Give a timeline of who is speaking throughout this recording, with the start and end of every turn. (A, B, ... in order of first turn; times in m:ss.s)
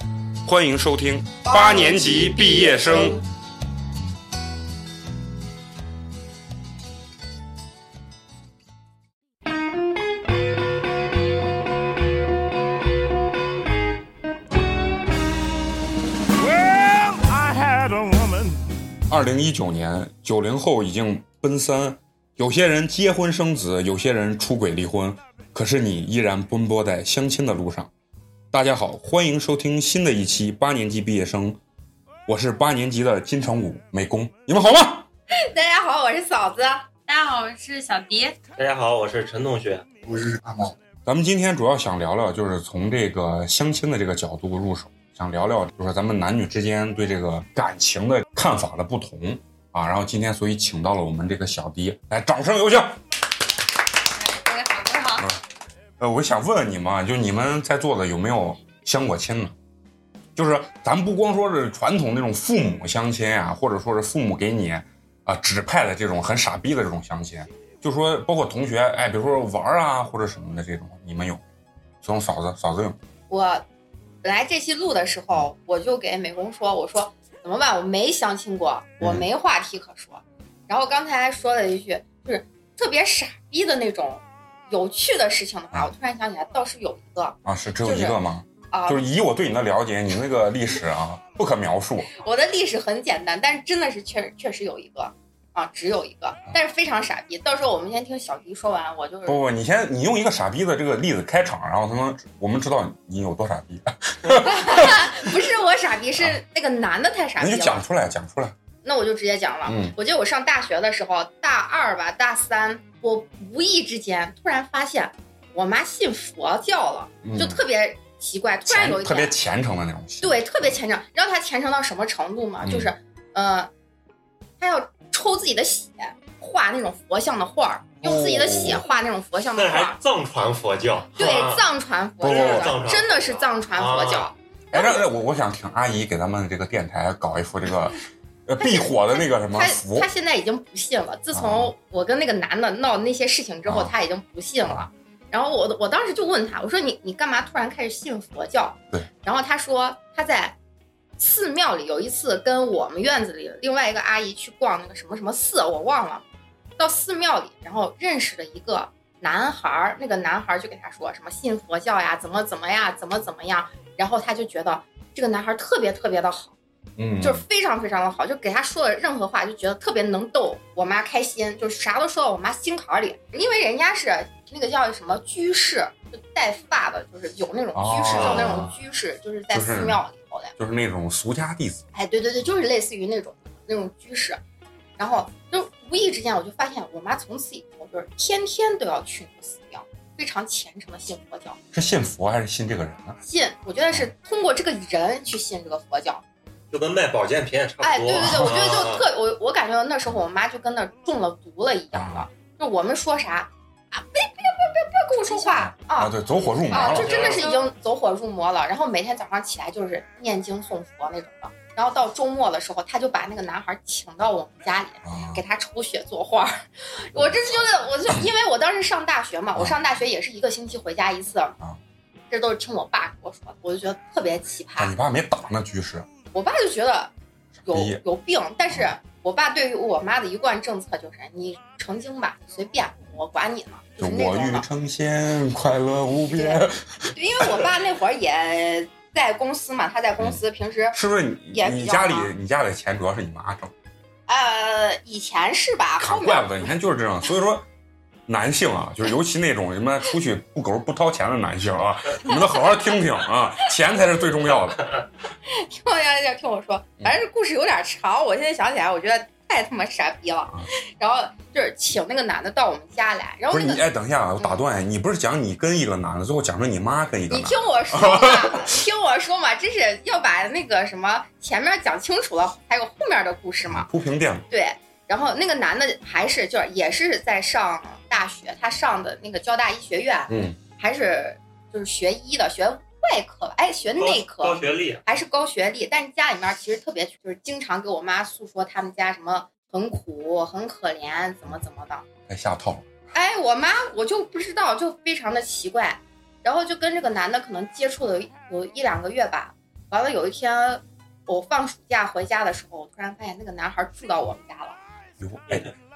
0:00.4-0:03.2 A
0:01.4-0:03.2 B
0:16.4-0:18.6 C
0:19.1-0:27.9 A
0:28.5-0:31.6 A
0:32.3-0:35.1 A
0:35.3-0:36.9 D
0:37.1-0:38.4 E
0:38.6-0:39.8 F
0:40.0-0:40.8 B
0:41.0-0:53.0 A
0:54.2-0:55.3 E
0:55.2-0:55.4 A
0:56.0-0:59.6 A
1:00.4-1:11.4 A
1:12.0-1:13.0 A
1:13.3-1:13.6 D
1:14.2-1:28.2 D
1:27.4-1:32.1 A
1:28.7-1:29.0 D
1:32.1-1:39.4 D
1:39.3-1:45.3 A
1:44.3-1:47.8 D
1:47.4-1:48.6 A
1:48.8-1:59.4 D
1:49.6-1:50.0 A
1:57.2-1:57.6 A
1:58.7-2:00.5 A
2:00.2-2:03.7 D
2:02.6-2:02.9 A
2:04.6-2:10.0 D
2:08.0-2:08.8 A
2:09.6-2:11.6 F
2:11.2-2:15.1 D
2:12.2-2:12.8 A
2:12.2-2:14.3 F
2:14.7-2:20.1 A
2:18.6-2:30.6 D
2:21.3-2:21.7 A
2:23.7-2:23.9 A
2:31.2-2:36.2 D
2:36.8-2:46.6 D
2:47.0-2:47.4 A
2:47.2-3:00.5 D
2:57.8-2:58.8 A
2:58.1-2:58.6 F
2:59.5-3:00.0 A
3:00.6-3:01.8 A
3:01.9-3:04.4 D
3:05.0-3:11.6 D
3:11.7-3:13.2 A
3:13.2-3:16.2 D
3:16.7-3:19.0 F
3:17.8-3:26.2 D
3:18.2-3:18.6 A
3:21.9-3:22.3 A
3:25.3-3:27.3 A
3:26.7-3:41.6 D
3:26.8-3:27.5 F
3:27.4-3:27.7 E
3:35.0-3:35.4 A
3:37.2-3:37.6 A
3:42.3-3:45.0 D
3:44.8-3:46.1 A
3:46.3-3:47.1 D
3:47.6-3:48.0 A
3:47.7-3:54.7 D
3:54.0-3:57.1 A
3:56.3-4:01.0 D
4:00.9-4:03.7 A
4:01.5-4:02.3 D
4:04.3-4:06.6 D
4:06.0-4:07.7 A
4:08.3-4:14.9 A
4:15.5-4:23.8 D
4:23.5-4:28.8 A
4:27.3-4:33.9 D
4:33.7-4:34.5 A
4:34.5-4:52.1 D
4:40.3-4:40.6 A
4:44.0-4:45.0 F
4:52.3-4:52.9 A
4:53.1-5:04.8 D
5:05.2-5:05.7 A